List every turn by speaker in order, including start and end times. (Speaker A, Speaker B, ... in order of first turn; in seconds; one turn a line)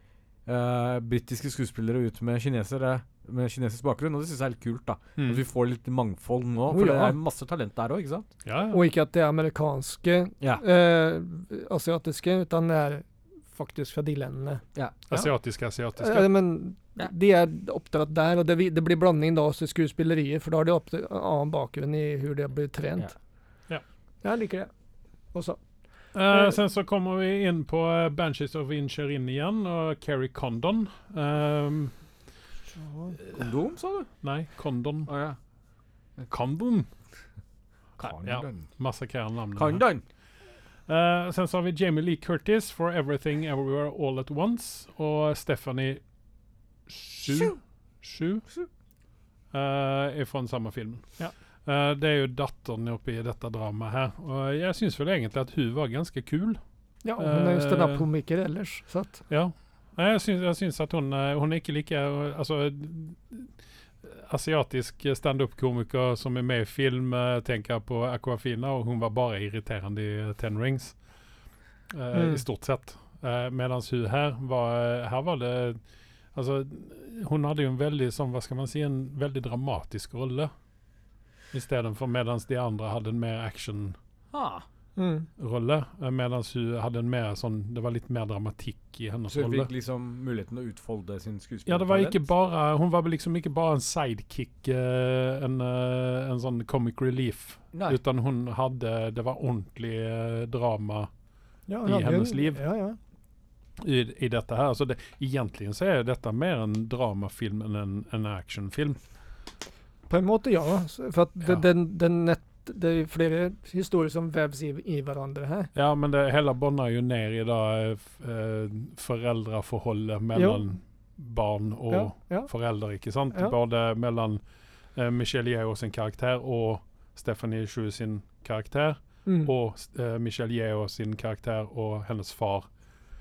Speaker A: 0.5-8.3
Speaker B: 5.2-5.4
Speaker C: 6.7-7.1
Speaker B: 8.4-8.8
Speaker C: 8.7-15.3
Speaker B: 15.1-16.3
Speaker C: 16.0-23.1
Speaker C: 24.2-24.7
Speaker C: 25.3-25.6
Speaker B: 26.1-31.9
Speaker C: 32.7-33.2
Speaker A: 33.3-34.1
Speaker B: 34.2-35.1
Speaker A: 35.1-35.4
Speaker B: 36.3-36.9
Speaker A: 38.0-38.6
Speaker B: 38.2-39.8
Speaker A: 39.5-40.0
Speaker B: 40.9-46.0
Speaker B: 46.9-48.5
Speaker A: 47.3-47.5
Speaker B: 49.5-51.0
Speaker B: 51.6-56.6
Speaker C: 57.0-59.2
Speaker B: 57.2-58.0
Speaker B: 59.3-63.5
Speaker B: 64.0-71.0
Speaker B: 71.9-75.8
Speaker C: 72.1-72.4
Speaker B: 76.3-80.5
Speaker B: 81.5-84.0
Speaker A: 84.3-84.6
Speaker C: 85.0-85.3
Speaker B: 85.4-89.7
Speaker A: 89.3-92.2
Speaker B: 91.7-101.1
Speaker A: 97.7-98.0
Speaker C: 101.7-103.0
Speaker B: 101.8-102.6
Speaker B: 103.8-109.0
Speaker C: 110.1-115.7
Speaker B: 115.7-124.4
Speaker C: 120.3-120.6
Speaker C: 121.9-122.5
Speaker B: 124.9-132.7
Speaker C: 129.2-129.5